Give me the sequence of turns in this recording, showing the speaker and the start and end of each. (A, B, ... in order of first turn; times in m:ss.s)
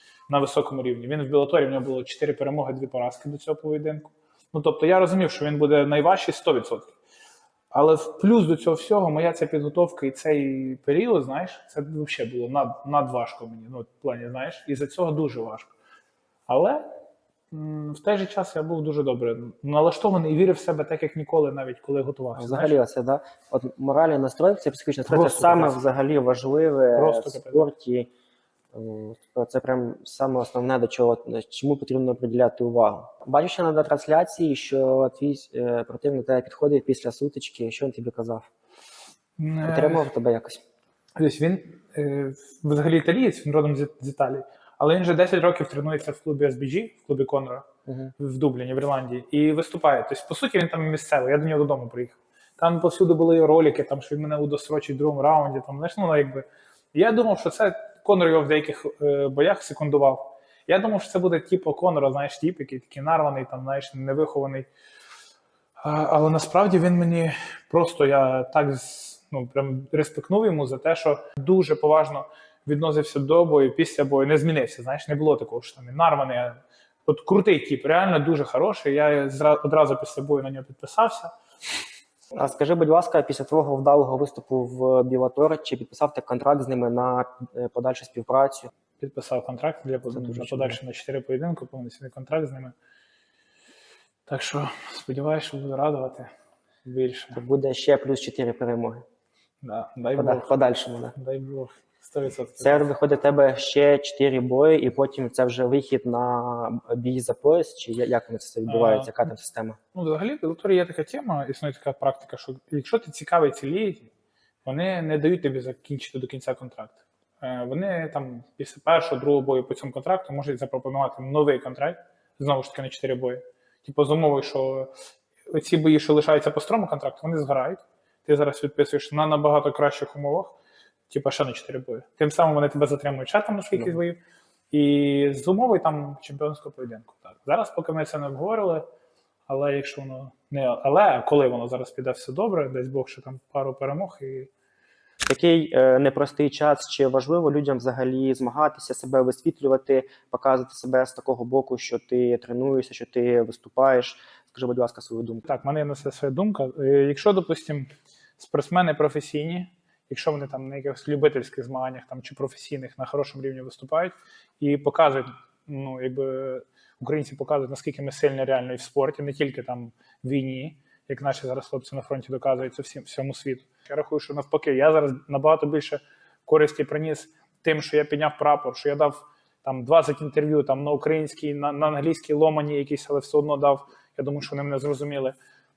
0:00.3-0:06.9 A
0:07.7-0:15.7 A
0:16.5-0:16.9 A
0:17.5-0:22.7 A
0:22.4-0:28.1 B
0:25.1-0:25.8 A
0:27.0-0:27.6 A
0:28.7-0:38.5 B
0:39.4-0:40.1 A
0:39.6-0:40.6 B
0:41.2-0:47.7 A
0:47.9-0:48.1 B
0:48.2-1:04.7 A
1:05.8-1:21.3 A
1:22.4-1:28.7 B
1:29.0-1:32.7 A
1:30.1-1:30.8 B
1:34.3-1:36.3 A
1:36.8-1:37.4 A
1:37.3-1:39.0 B
1:39.6-1:40.6 A
1:40.2-1:41.2 B
1:41.2-1:42.9 A
1:42.6-1:49.8 B
1:48.7-1:49.3 A
1:49.9-1:54.1 A
1:54.6-2:04.9 A
2:05.5-2:10.6 A
2:11.1-2:14.2 A
2:14.7-2:18.9 A
2:19.5-2:24.5 A
2:25.3-2:35.4 B
2:35.4-3:05.4 A